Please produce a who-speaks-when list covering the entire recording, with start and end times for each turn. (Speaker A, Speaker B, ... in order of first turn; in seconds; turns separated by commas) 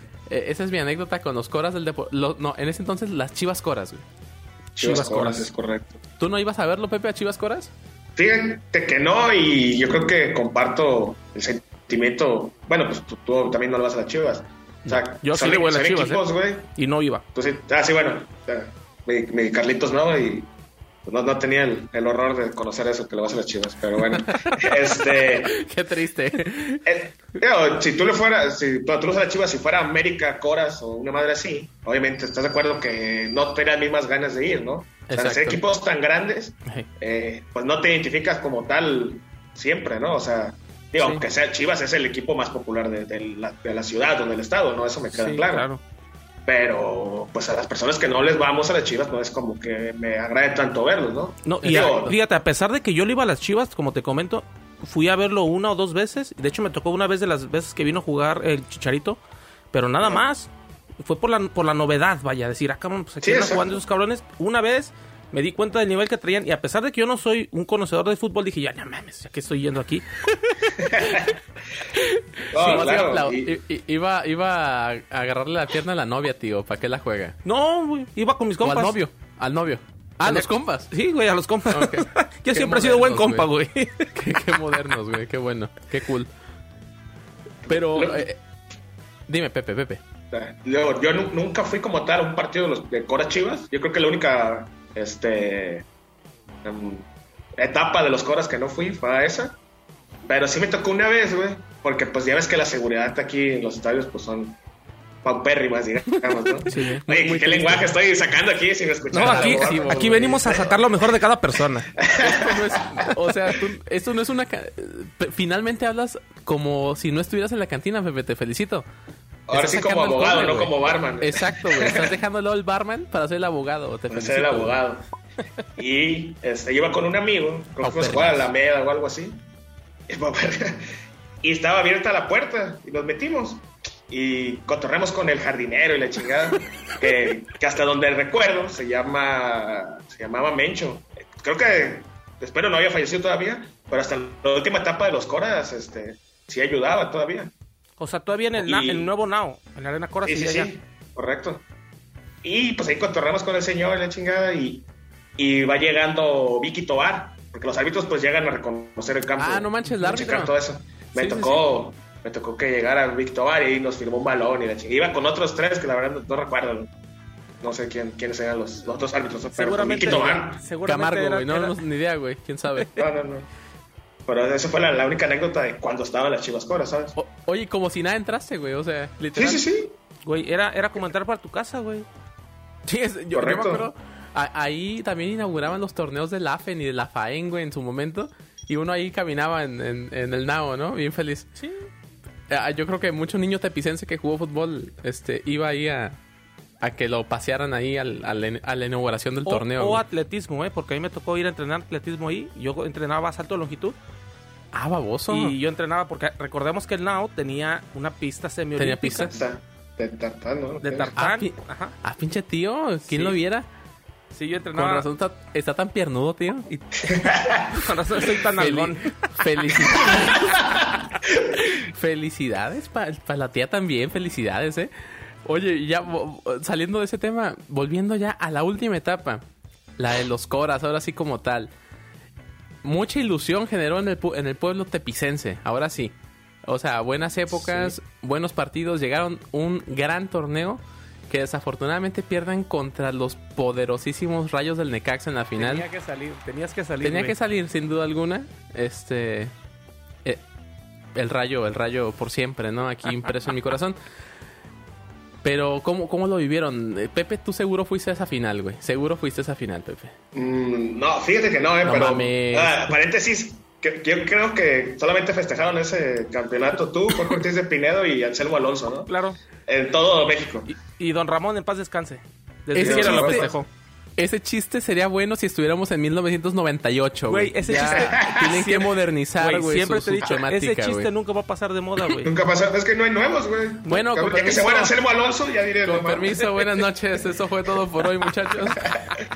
Speaker A: 0.3-4.0, Speaker B: 4.8-6.0, Speaker C: 4.8-5.5, Speaker A: 6.2-7.7, Speaker B: 8.2-16.7, Speaker C: 14.9-16.2, Speaker C: 16.8-17.2, Speaker B: 17.3-20.5, Speaker B: 21.0-25.6, Speaker A: 24.3-24.7, Speaker A: 25.3-26.8, Speaker B: 26.8-45.7, Speaker A: 35.1-35.6, Speaker C: 45.1-45.8, Speaker B: 46.5-52.1, Speaker C: 51.4-59.2, Speaker A: 51.6-52.1, Speaker C: 59.7-60.5, Speaker C: 61.0-70.0, Speaker B: 63.2-63.8, Speaker B: 70.8-71.4, Speaker A: 71.9-77.3, Speaker B: 72.5-73.6, Speaker C: 72.5-72.9, Speaker C: 77.4-79.0, Speaker A: 78.6-80.9, Speaker C: 80.2-84.1, Speaker A: 81.7-83.5, Speaker A: 84.1-86.3, Speaker B: 87.6-88.2, Speaker A: 87.7-88.4, Speaker A: 89.3-90.0, Speaker B: 90.3-95.8, Speaker B: 96.6-99.6, Speaker B: 100.2-104.6, Speaker B: 105.2-110.7, Speaker A: 106.6-107.8, Speaker C: 106.7-107.0, Speaker C: 109.1-111.9, Speaker A: 109.2-110.6, Speaker B: 112.0-113.1, Speaker A: 112.1-118.8, Speaker B: 119.5-122.2, Speaker A: 119.5-124.8, Speaker B: 124.1-125.0, Speaker B: 125.8-129.4, Speaker A: 127.8-128.5, Speaker B: 130.1-147.5, Speaker C: 148.0-150.7, Speaker B: 148.6-149.1, Speaker B: 150.2-151.6, Speaker B: 152.4-154.8, Speaker B: 155.4-166.9, Speaker A: 159.4-160.5, Speaker A: 161.1-161.6, Speaker B: 167.6-170.6, Speaker C: 169.5-171.8, Speaker A: 170.8-172.9, Speaker B: 172.9-173.5, Speaker B: 174.2-177.2, Speaker A: 177.2-179.6, Speaker B: 179.3-179.9, Speaker C: 180.2-182.1, Speaker A: 182.8-191.5, Speaker B: 183.3-183.9, Speaker A: 192.5-196.2, Speaker A: 196.8-200.0, Speaker C: 199.4-203.9, Speaker A: 204.7-205.5, Speaker C: 205.3-209.3, Speaker A: 208.8-209.3, Speaker B: 209.3-211.1, Speaker C: 210.8-211.9, Speaker A: 211.2-213.7, Speaker C: 213.1-213.3, Speaker C: 214.3-215.1, Speaker A: 214.7-216.7, Speaker C: 216.7-217.0, Speaker B: 217.1-217.7, Speaker C: 217.6-219.3, Speaker A: 218.6-220.8, Speaker A: 221.4-224.9, Speaker A: 225.4-229.4, Speaker A: 230.0-231.7, Speaker A: 232.8-236.1, Speaker A: 236.7-245.8, Speaker C: 245.6-247.3, Speaker A: 247.0-249.5, Speaker A: 251.1-254.0, Speaker A: 255.4-260.1, Speaker B: 260.3-269.1, Speaker A: 261.8-262.9, Speaker C: 269.1-269.4, Speaker B: 269.6-270.7, Speaker C: 270.7-273.7, Speaker A: 272.7-273.5, Speaker B: 272.8-273.5, Speaker A: 274.2-281.1, Speaker C: 277.3-282.3, Speaker B: 277.9-278.6, Speaker B: 282.2-286.5, Speaker A: 283.9-284.9, Speaker A: 285.8-289.0